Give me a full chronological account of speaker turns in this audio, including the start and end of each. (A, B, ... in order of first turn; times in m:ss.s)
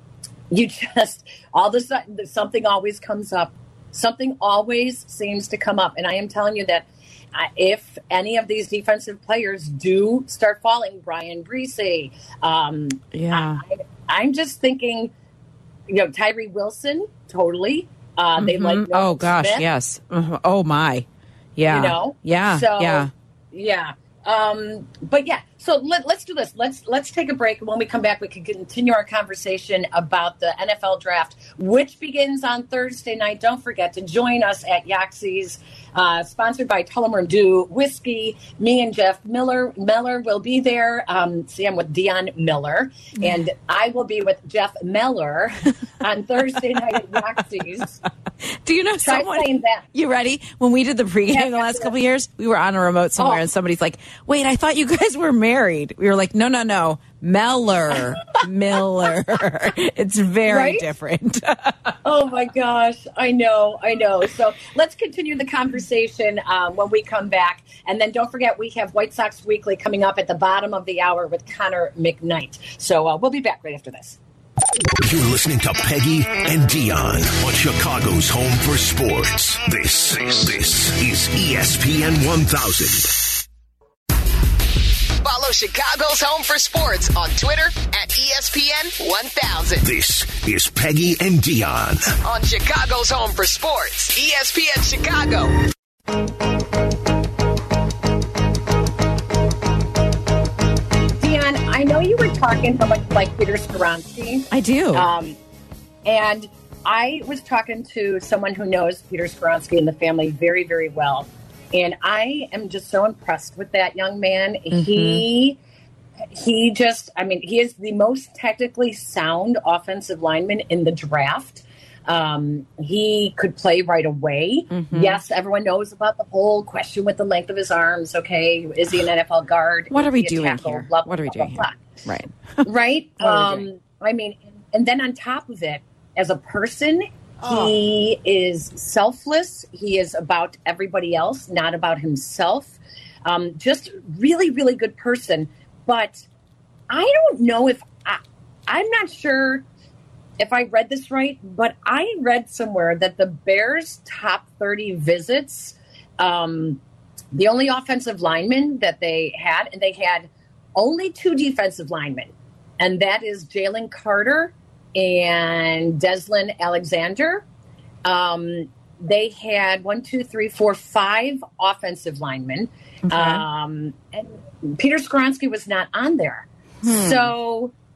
0:00.5-0:15.1 A
0:13.1-0:13.6 B
0:15.9-0:19.7 A
0:18.4-0:23.1 B
0:21.7-0:48.0 A
0:48.4-1:01.9 B
0:49.0-0:49.8 A
0:51.3-0:51.9 A
0:53.2-0:53.4 A
1:00.4-1:00.8 A
1:02.0-1:14.2 A
1:15.0-1:23.2 C
1:25.2-1:29.9 D
1:29.8-1:32.1 C
1:32.2-1:35.5 D
1:41.2-1:45.4 A
1:44.5-1:45.1 B
1:46.0-1:55.6 A
1:54.7-1:55.2 B
1:56.3-2:11.8 A
2:04.7-2:05.2 B
2:09.9-2:12.6 B
2:12.6-2:26.2 A
2:13.2-2:13.7 B
2:17.4-2:17.7 B
2:26.9-2:29.6 A
2:30.4-2:36.8 A
2:37.3-2:47.4 A
2:48.0-2:57.7 A
2:53.0-2:53.4 B
2:56.8-2:57.3 B